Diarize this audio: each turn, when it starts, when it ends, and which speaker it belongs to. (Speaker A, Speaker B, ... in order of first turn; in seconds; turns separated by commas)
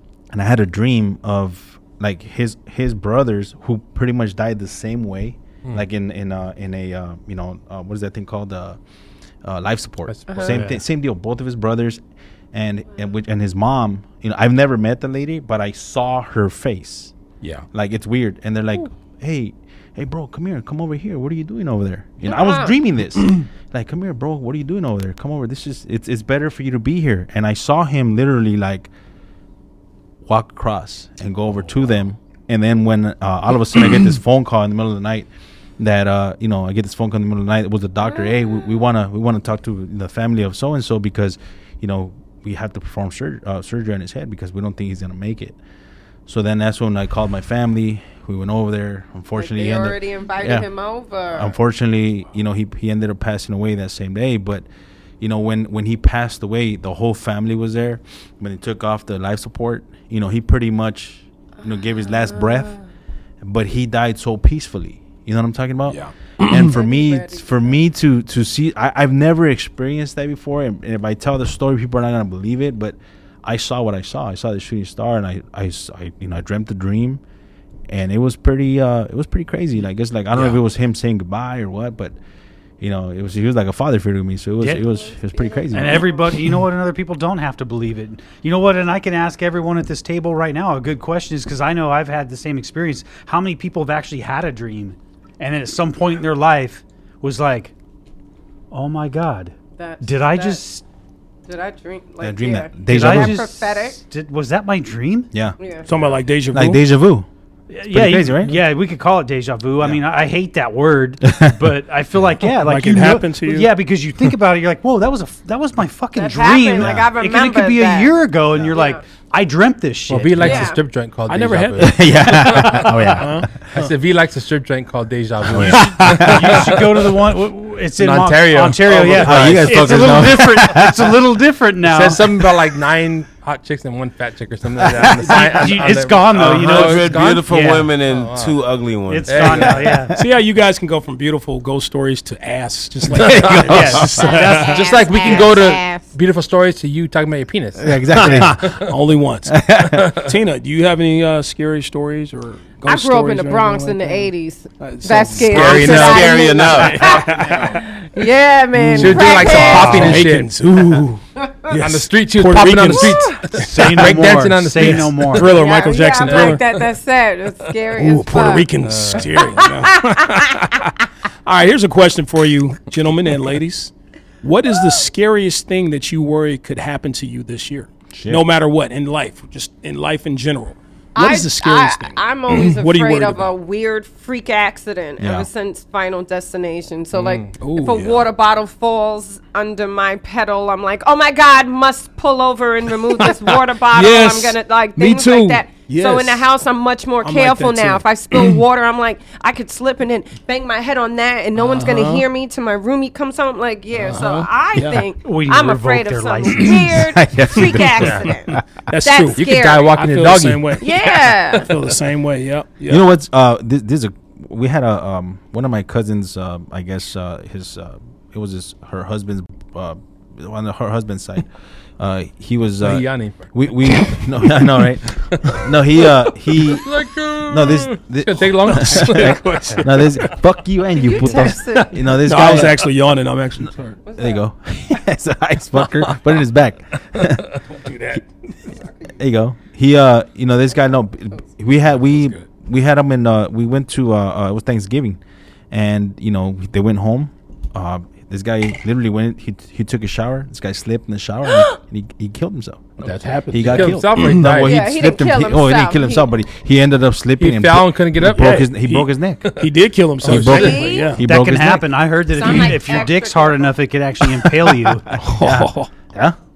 Speaker A: 0.3-8.8, Speaker A: 9.4-12.0, Speaker B: 10.1-10.7, Speaker C: 10.3-10.5, Speaker A: 12.5-17.1, Speaker A: 17.7-28.9, Speaker C: 22.2-22.7, Speaker A: 30.2-35.3, Speaker A: 35.8-45.6, Speaker C: 38.1-38.8, Speaker A: 46.2-50.7, Speaker C: 49.3-51.5, Speaker A: 51.3-54.6, Speaker A: 55.2-62.8, Speaker C: 62.1-62.8, Speaker A: 63.4-77.2, Speaker D: 65.9-66.7, Speaker C: 66.6-67.8, Speaker A: 77.9-82.1, Speaker A: 82.8-86.1, Speaker C: 84.8-86.2, Speaker E: 85.7-97.7, Speaker E: 98.7-100.8, Speaker C: 99.8-100.6, Speaker C: 101.5-104.0, Speaker A: 102.2-103.5, Speaker E: 102.9-105.3, Speaker A: 105.3-107.3, Speaker C: 105.6-105.9, Speaker D: 105.9-106.9, Speaker E: 107.7-120.7, Speaker A: 107.9-108.5, Speaker A: 111.2-111.5, Speaker D: 112.6-113.7, Speaker C: 116.1-119.0, Speaker A: 116.8-117.1, Speaker B: 120.1-126.9, Speaker C: 120.4-120.8, Speaker D: 121.3-123.9, Speaker A: 121.8-123.5, Speaker A: 125.5-126.7, Speaker E: 125.7-132.2, Speaker B: 128.0-129.9, Speaker A: 129.1-131.1, Speaker B: 131.9-138.6, Speaker A: 134.8-135.2, Speaker E: 135.2-137.9, Speaker F: 136.3-139.7, Speaker E: 139.1-140.1, Speaker B: 139.3-139.8, Speaker D: 140.2-144.6, Speaker A: 143.2-144.1, Speaker B: 143.2-143.9, Speaker E: 143.6-145.6, Speaker C: 144.1-146.1, Speaker B: 144.8-148.9, Speaker A: 147.8-148.7, Speaker D: 148.2-149.5, Speaker A: 149.5-150.2, Speaker B: 150.0-150.3, Speaker D: 150.2-154.3, Speaker C: 152.8-160.2, Speaker D: 154.8-157.8, Speaker B: 155.5-156.4, Speaker F: 155.6-157.6, Speaker D: 158.8-164.2, Speaker B: 158.9-160.5, Speaker B: 161.7-165.6, Speaker C: 162.9-163.4, Speaker E: 163.6-165.5, Speaker D: 164.8-166.6, Speaker C: 165.5-168.7, Speaker D: 167.9-170.9, Speaker B: 168.8-169.5, Speaker C: 169.6-170.6, Speaker D: 171.4-173.9, Speaker D: 174.4-183.5, Speaker A: 178.1-178.4, Speaker C: 181.1-209.9, Speaker A: 185.2-185.5, Speaker B: 187.1-187.6, Speaker D: 187.6-188.3, Speaker D: 193.1-196.4, Speaker D: 197.2-198.6, Speaker D: 201.6-202.2, Speaker D: 204.0-205.0, Speaker E: 205.2-206.8, Speaker A: 206.9-208.6, Speaker B: 207.9-208.3, Speaker D: 208.9-213.0, Speaker B: 209.4-210.8, Speaker C: 210.8-211.7, Speaker A: 212.9-221.5, Speaker A: 222.0-232.9, Speaker B: 222.8-223.5, Speaker B: 226.6-230.0, Speaker D: 228.7-230.1, Speaker C: 230.9-232.6, Speaker D: 232.1-234.0, Speaker C: 234.0-234.4, Speaker A: 234.2-237.4, Speaker D: 237.8-238.2, Speaker A: 239.1-245.2, Speaker D: 242.1-242.4, Speaker A: 245.7-259.4, Speaker C: 251.5-251.8, Speaker D: 253.0-254.5, Speaker B: 253.2-254.8, Speaker C: 254.5-256.4, Speaker B: 257.4-258.7, Speaker D: 258.3-261.2, Speaker B: 260.2-260.8, Speaker A: 260.3-261.9, Speaker C: 260.5-261.1, Speaker E: 261.2-265.1, Speaker C: 262.3-263.8, Speaker A: 265.1-266.4, Speaker D: 265.2-265.9